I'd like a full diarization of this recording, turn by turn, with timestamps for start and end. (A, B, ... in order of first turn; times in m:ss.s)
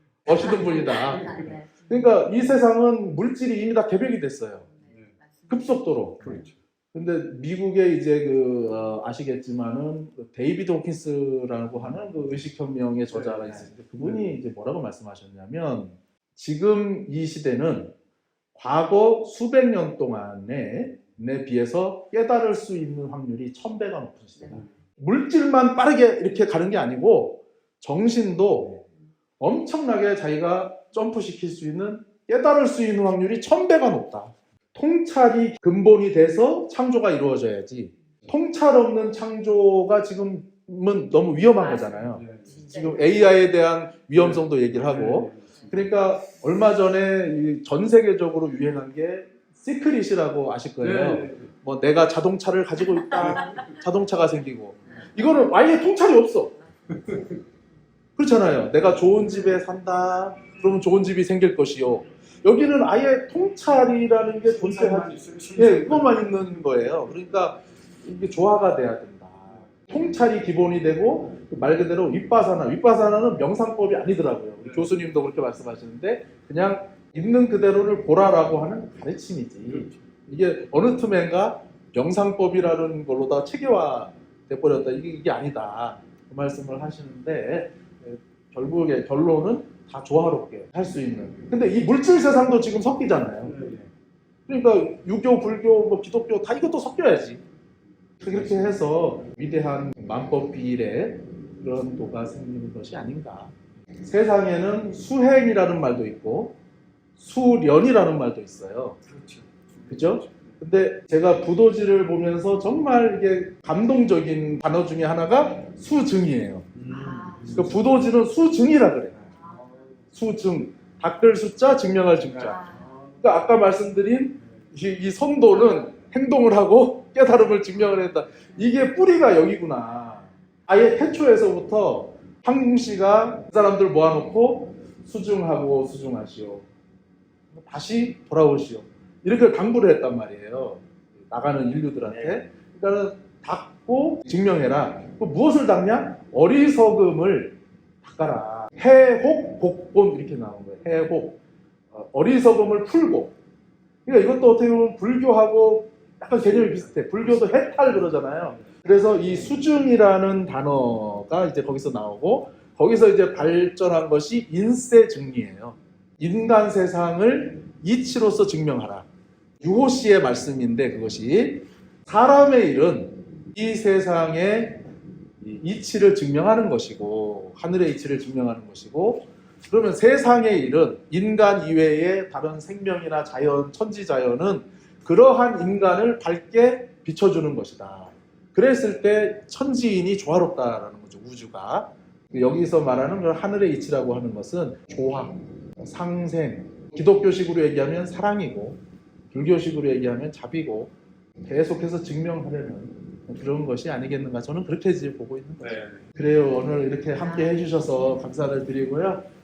0:00.2-0:04.7 A
0:00.3-0:02.2 B
0:04.8-0:05.8 B
0:05.5-0:17.9 A
0:06.2-0:06.5 C
0:18.5-0:28.8 A
0:29.4-0:56.5 A
0:41.6-0:43.2 B
0:42.2-0:42.5 C
0:44.2-0:45.6 C
0:50.8-0:51.4 C
0:58.2-1:33.6 A
1:04.6-1:06.1 C
1:33.5-1:33.8 C
1:34.5-1:37.4 A
1:38.2-1:43.5 A
1:44.0-1:46.6 A
1:47.2-1:49.0 A
1:49.1-1:49.9 C
1:49.9-1:56.7 A
1:56.7-1:57.7 C
1:56.9-1:57.7 B
1:57.5-1:59.2 A
1:59.3-1:59.8 B
2:00.1-2:02.7 A
2:02.5-2:02.9 B
2:02.8-2:03.2 C
2:03.2-2:16.7 A
2:17.5-2:31.4 A
2:31.9-2:33.4 A
2:34.0-2:49.1 A
2:49.6-2:54.8 A
2:55.4-3:18.8 A
3:19.3-3:20.9 A
3:21.4-3:29.2 A
3:25.7-3:26.0 C
3:27.2-3:27.7 B